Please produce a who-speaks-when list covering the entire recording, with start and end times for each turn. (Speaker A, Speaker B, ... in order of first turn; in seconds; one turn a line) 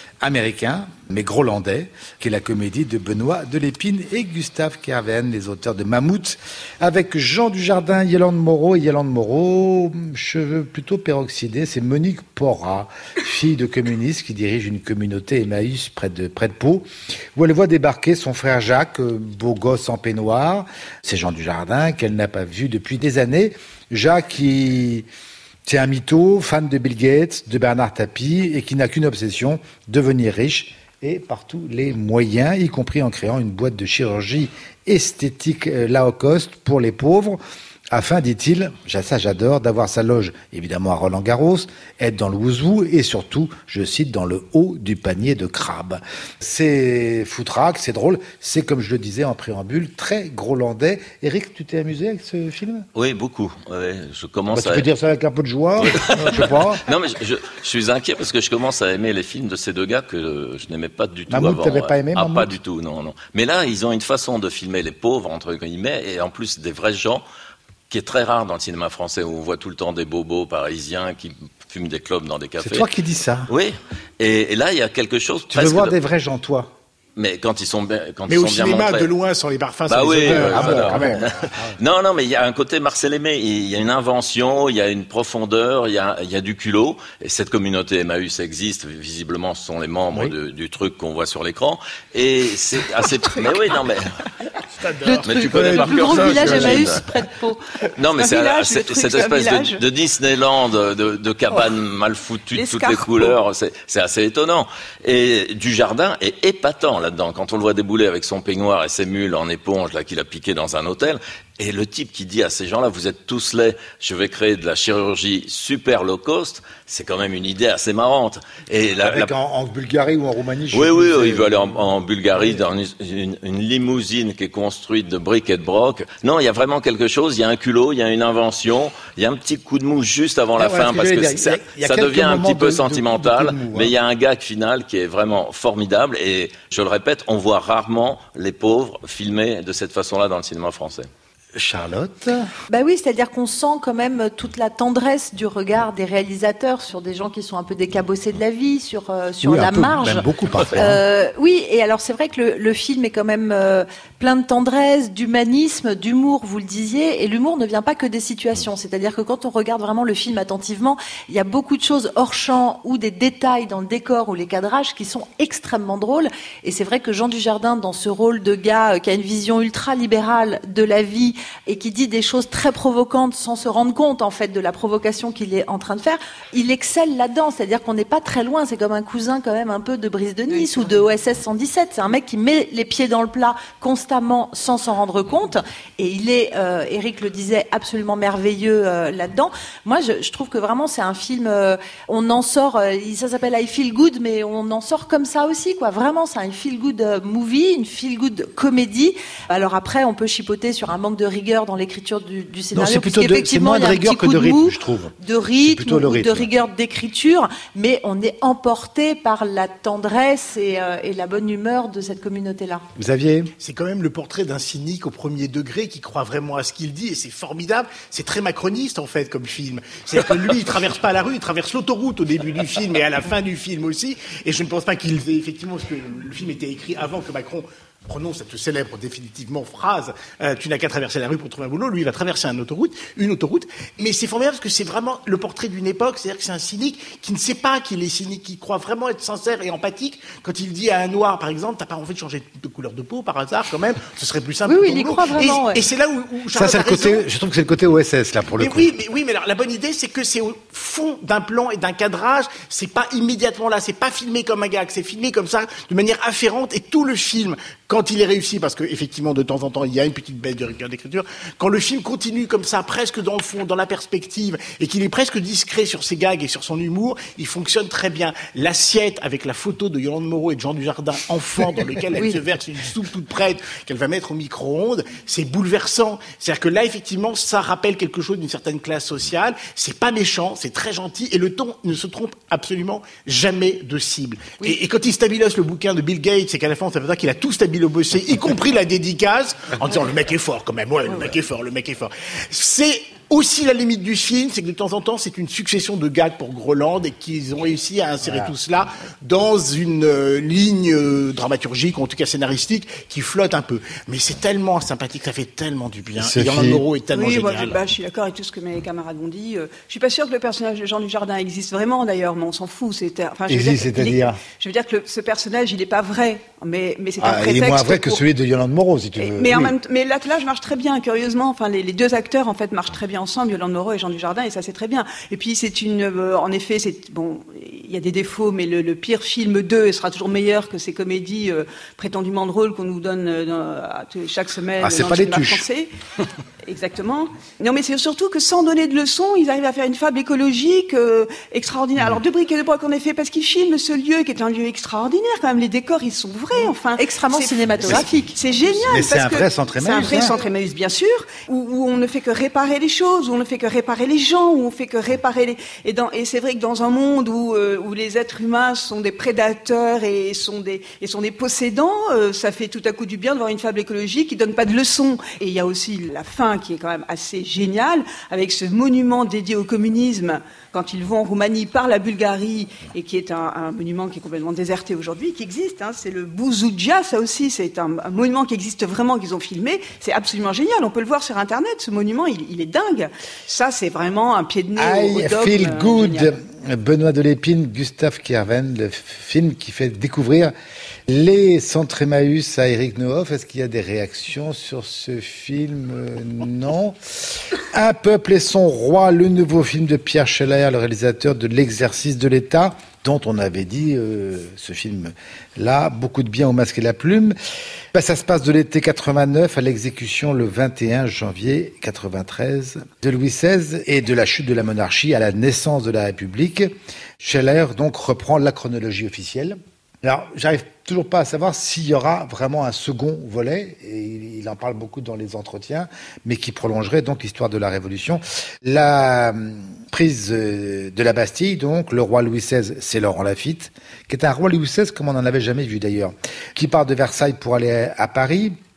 Speaker A: 0.2-25.1
Speaker A: 25.7-37.4
Speaker A: 37.9-52.9
Speaker B: 53.0-54.9
Speaker A: 54.5-56.9
Speaker B: 55.8-67.2
Speaker A: 61.3-62.5
Speaker B: 67.9-72.8
Speaker A: 72.6-73.5
Speaker B: 73.5-76.0
Speaker A: 75.5-76.7
Speaker B: 77.2-79.1
Speaker C: 78.3-81.3
Speaker B: 79.9-94.1
Speaker A: 80.3-81.8
Speaker C: 94.8-96.6
Speaker D: 95.0-97.6
Speaker B: 95.2-97.0
Speaker A: 96.3-96.7
Speaker B: 98.0-119.3
Speaker E: 98.2-99.8
Speaker E: 102.5-103.4
Speaker A: 119.0-121.7
Speaker B: 120.7-141.1
Speaker A: 130.6-133.9
Speaker A: 141.5-142.5
Speaker D: 142.7-212.8
Speaker A: 149.4-151.0
Speaker E: 180.5-181.0
Speaker A: 202.7-206.5
Speaker A: 213.0-213.5
Speaker C: 213.6-247.2
Speaker D: 244.7-245.8
Speaker A: 246.5-248.9
Speaker C: 248.6-307.8
Speaker A: 298.2-298.6
Speaker A: 306.2-306.8
Speaker E: 307.1-318.2
Speaker A: 313.5-314.4
Speaker A: 317.2-319.7
Speaker E: 319.2-335.9
Speaker A: 334.8-335.6
Speaker E: 336.6-386.4
Speaker D: 347.0-348.4
Speaker A: 348.9-350.4
Speaker A: 384.8-390.5
Speaker A: 391.1-407.4
Speaker A: 407.9-438.6